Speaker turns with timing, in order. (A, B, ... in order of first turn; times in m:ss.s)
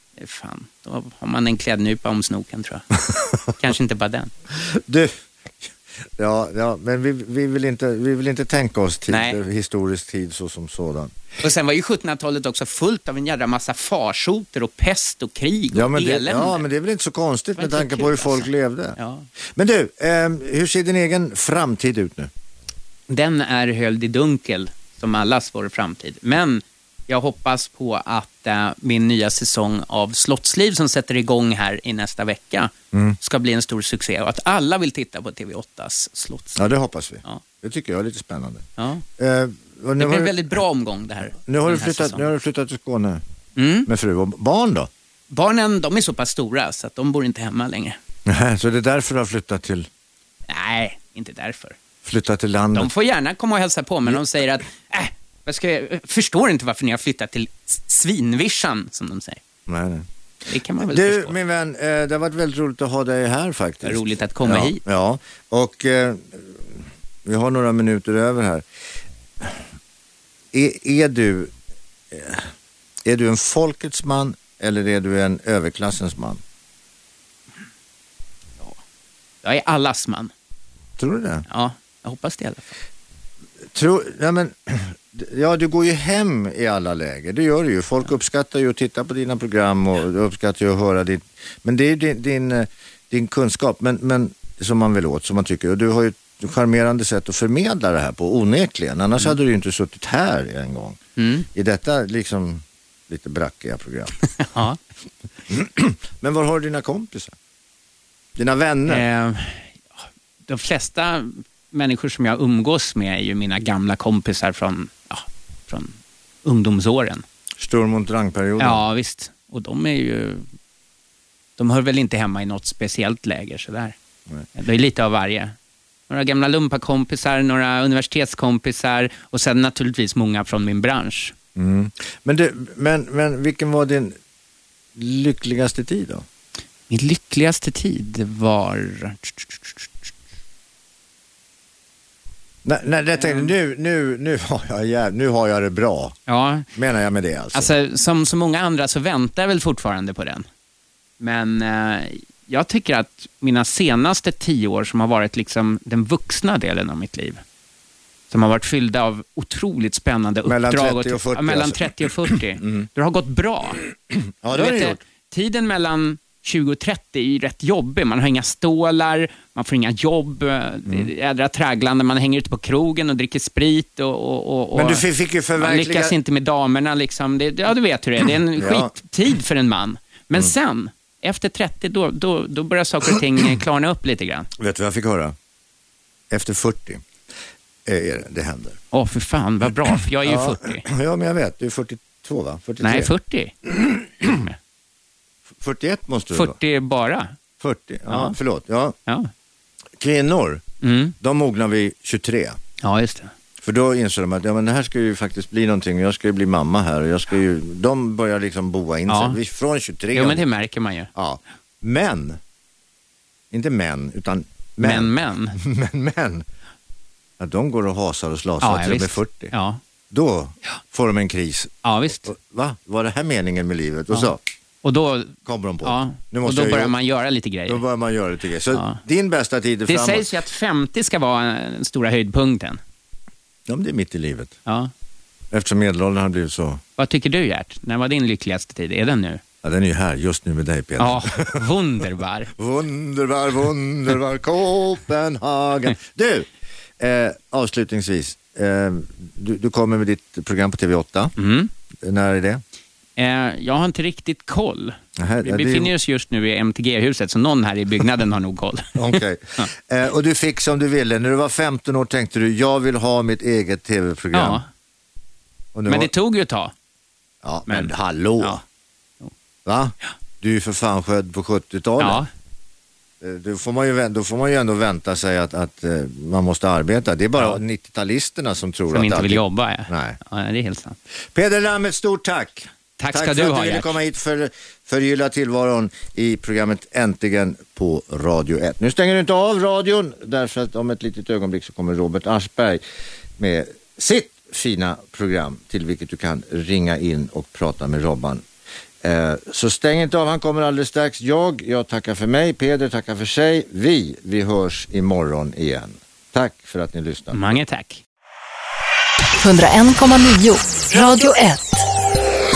0:00.2-0:02.9 A
0:03.6-0:04.3 A
0:04.5-0:11.2 B
0:09.1-0:09.4 A
0:11.4-0:16.6 A
0:15.7-0:19.0 B
0:17.6-0:19.3 A
0:19.5-0:22.3 B
0:23.1-0:36.6 A
0:36.6-0:40.4 B
0:38.8-0:39.0 A
0:40.0-0:42.3 A
0:41.4-0:43.2 B
0:43.6-0:43.9 A
0:43.9-0:44.9 B
0:45.3-0:48.0 A
0:48.3-0:49.9 B
0:50.5-0:51.8 A
0:52.0-0:52.9 B
0:52.7-0:59.4 A
0:59.7-1:00.1 B
1:00.5-1:01.4 A
1:00.8-1:08.6 B
1:03.8-1:04.8 A
1:10.5-1:11.5 B
1:12.1-1:12.5 B
1:13.0-1:16.4 B
1:19.4-1:20.3 A
1:21.0-1:21.4 B
1:21.5-1:22.8 A
1:23.7-1:41.0 B
1:41.2-1:41.5 A
1:41.5-1:44.2 B
1:44.4-1:44.8 A
1:45.5-1:47.4 B
1:48.4-1:49.0 B
1:48.9-1:49.8 A
1:50.5-1:57.2 A
1:57.6-1:58.8 B
1:58.6-2:00.5 A
2:01.6-2:04.0 A
2:04.5-2:05.6 A
2:06.1-2:11.4 A
2:11.6-2:14.2 B
2:15.0-2:16.2 B
2:16.9-2:20.1 A
2:22.6-2:26.2 B
2:23.2-2:23.5 A
2:26.3-2:26.7 A
2:26.7-2:27.7 B
2:27.5-2:30.5 A
2:31.2-2:37.4 A
2:38.3-2:43.8 A
2:40.5-2:41.8 B
2:42.6-2:42.9 B
2:44.1-2:45.0 B
2:44.5-2:55.1 A
2:54.7-2:56.2 B
2:55.6-3:04.5 A
2:58.6-2:58.9 B
3:04.6-3:05.3 B
3:06.3-3:07.0 B
3:07.9-3:08.8 B
3:08.9-3:10.9 A
3:10.2-3:13.1 B
3:12.8-3:13.6 A
3:13.7-3:14.5 B
3:15.6-3:16.6 B
3:16.3-3:17.3 A
3:17.6-3:19.0 B
3:18.1-3:18.4 A
3:20.0-3:20.6 B
3:20.8-3:21.2 A
3:21.2-3:22.6 B
3:22.8-3:23.3 A
3:23.6-3:30.4 B
3:29.1-3:29.4 A
3:30.1-3:31.1 A
3:31.2-3:32.4 B
3:33.5-3:36.4 B
3:34.8-3:35.6 A
3:37.4-3:39.5 B
3:38.6-3:39.8 A
3:40.1-3:41.8 B
3:41.8-3:42.3 A
3:42.3-3:44.4 B
3:44.8-3:47.8 A
3:45.5-3:46.9 B
3:47.7-3:50.3 B
3:48.7-3:49.0 A
3:49.9-3:52.8 A
3:53.7-3:54.6 B
3:54.7-3:54.9 A
3:55.5-3:56.8 B
3:57.0-3:59.4 A
3:59.6-4:01.6 B
4:01.0-4:02.5 A
4:02.6-4:06.5 B
4:07.0-4:11.3 B
4:11.4-4:11.7 A
4:12.0-4:12.6 B
4:13.2-4:19.7 A
4:15.2-4:15.9 B
4:19.0-4:24.6 B
4:24.3-4:24.7 A
4:25.7-4:26.1 B
4:25.9-4:26.7 A
4:27.4-4:28.6 B
4:27.7-4:28.6 A
4:29.7-4:32.2 B
4:32.0-4:32.3 A
4:33.2-4:40.2 B
4:38.9-4:41.0 A
4:41.3-4:52.8 B
4:43.0-4:44.0 A
4:53.4-4:58.4 B
4:59.0-5:07.4 B
5:07.3-5:08.0 A
5:09.4-5:11.9 C